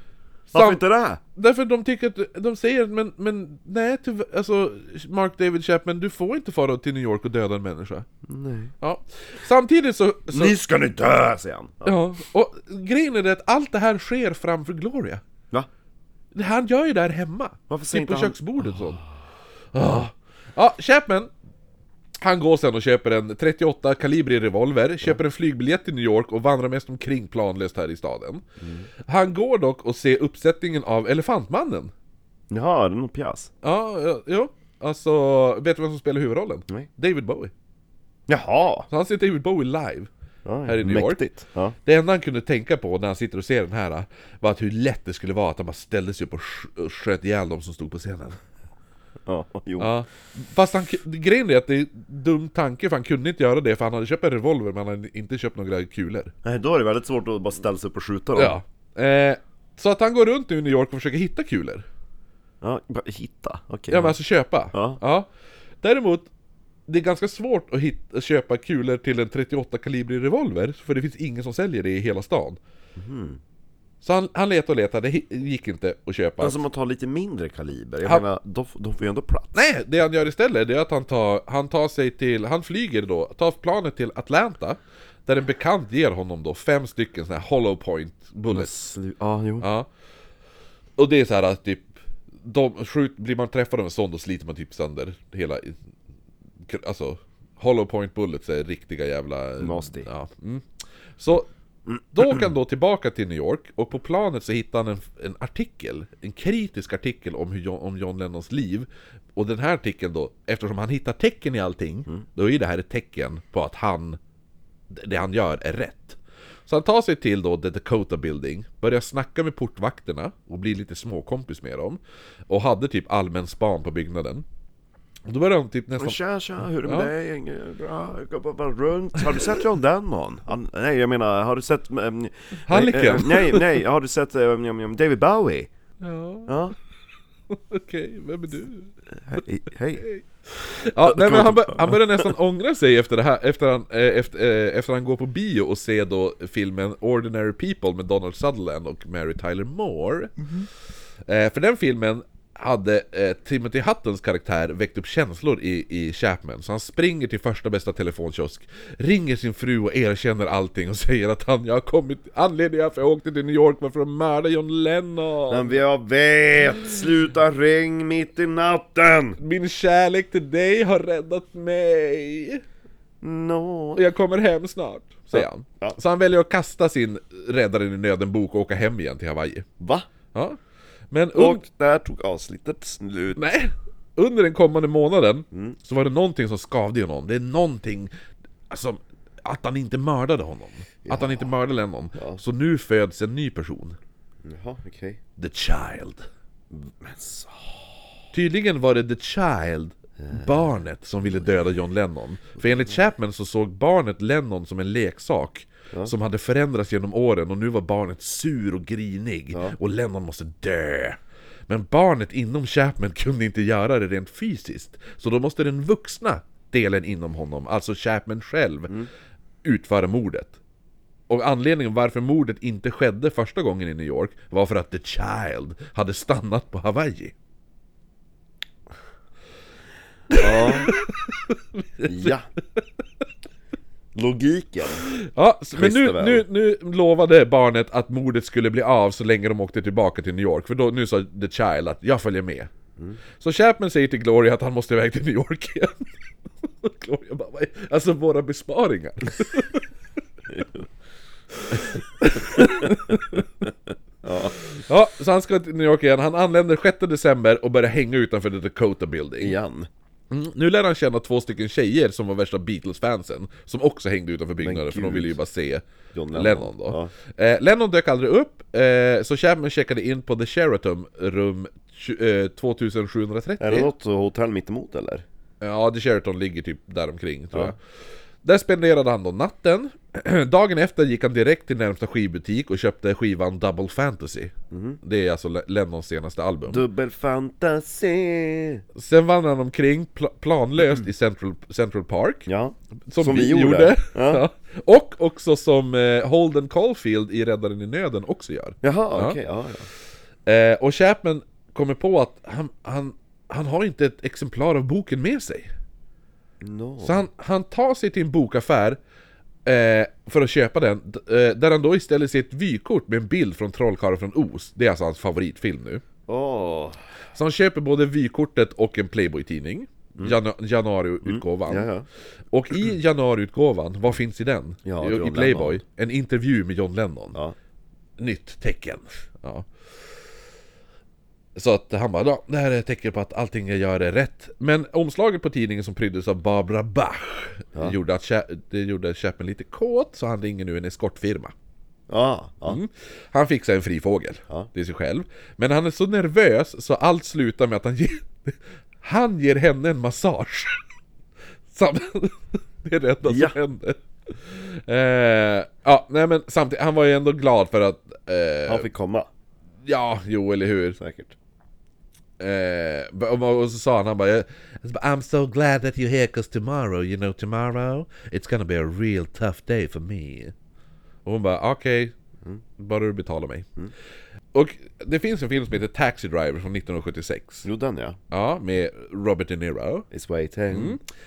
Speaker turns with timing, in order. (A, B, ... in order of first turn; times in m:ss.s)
0:00.5-0:01.2 A
0:00.5-0:00.8 B
0:01.3-0:08.1 B
0:08.2-0:08.7 A
0:08.8-0:10.5 B
0:10.3-0:12.0 A
0:11.8-0:15.2 B
0:16.3-0:19.0 B
0:17.7-0:18.4 A
0:19.7-0:21.3 B
0:22.2-0:28.4 B
0:28.6-0:28.9 A
0:29.0-0:31.9 B
0:32.5-0:33.5 A
0:33.6-0:37.5 B
0:38.3-0:38.9 A
0:38.9-0:40.1 B
0:40.4-0:41.8 A
0:40.6-0:41.2 B
0:41.8-0:48.4 B
0:49.3-0:49.9 A
0:49.8-0:56.3 B
0:56.4-0:58.6 A
0:58.3-1:01.8 B
1:02.6-1:04.2 A
1:03.9-1:05.3 B
1:04.7-1:05.0 A
1:05.8-1:06.3 B
1:06.9-1:12.6 B
1:13.0-1:13.4 A
1:14.0-1:16.6 B
1:16.4-1:19.6 A
1:19.5-1:28.7 B
1:28.5-1:29.7 A
1:29.6-1:29.9 B
1:31.0-1:35.8 B
1:36.6-1:40.7 B
1:39.6-1:40.1 A
1:41.2-1:41.5 B
1:42.1-1:54.2 B
1:54.9-2:04.4 B
2:05.3-2:06.2 B
2:06.0-2:15.7 A
2:06.8-2:07.1 B
2:12.7-2:13.8 B
2:16.0-2:16.5 B
2:16.5-2:16.8 A
2:17.5-2:19.4 B
2:19.2-2:20.1 A
2:20.0-2:30.5 B
2:21.0-2:22.0 A
2:31.2-2:45.8 B
2:45.5-2:49.4 A
2:49.4-2:52.6 B
2:53.2-2:54.0 A
2:54.0-2:59.6 B
2:55.3-2:56.0 A
2:59.8-3:00.1 A
3:01.1-3:01.6 B
3:01.3-3:03.4 A
3:03.4-3:08.1 B
3:05.5-3:05.8 A
3:08.7-3:14.0 B
3:11.0-3:11.5 A
3:12.1-3:12.4 A
3:14.4-3:15.2 A
3:15.4-3:16.3 B
3:16.7-3:17.9 A
3:18.3-3:38.9 B
3:20.2-3:20.6 A
3:39.6-3:40.6 B
3:41.3-3:47.3 B
3:50.3-3:51.0 A
3:50.4-3:52.3 B
3:52.0-3:52.5 A
3:54.1-3:55.1 A
3:55.1-4:02.7 B
3:55.7-3:56.4 A
4:03.4-4:06.1 B
4:06.7-4:09.8 B
4:10.5-4:10.8 A
4:11.7-4:13.4 B
4:12.2-4:13.2 A
4:14.2-4:14.6 A
4:14.8-4:19.6 B
4:19.4-4:19.9 A
4:20.3-4:33.9 B
4:24.6-4:25.4 A
4:26.1-4:27.1 A
4:33.6-4:35.2 A
4:35.6-4:37.8 B
4:38.4-4:46.8 B
4:44.7-4:45.0 A
4:46.7-4:48.8 A
4:48.9-4:52.5 B
4:52.5-4:54.4 A
4:53.1-4:59.4 B
4:58.8-4:59.9 A
5:00.4-5:05.7 B
5:06.6-5:07.2 A
5:07.0-5:09.0 B
5:09.6-5:16.0 B
5:16.3-5:17.0 A
5:17.3-5:21.9 B
5:21.2-5:22.0 A
5:22.5-5:27.4 B
5:24.8-5:25.8 A
5:28.2-5:29.7 B
5:31.5-5:41.5 B
5:42.1-5:42.8 A
5:42.7-5:50.8 B
5:51.7-5:58.9 B
5:53.2-5:53.6 A
5:58.6-5:59.3 A
5:59.8-6:01.0 B
6:01.0-6:01.3 A
6:02.4-6:10.5 B
6:11.2-6:12.1 B
6:12.8-6:13.7 B
6:14.5-6:17.6 B
6:17.6-6:18.2 A
6:18.3-6:20.1 B
6:20.1-6:21.0 A
6:20.7-6:21.0 B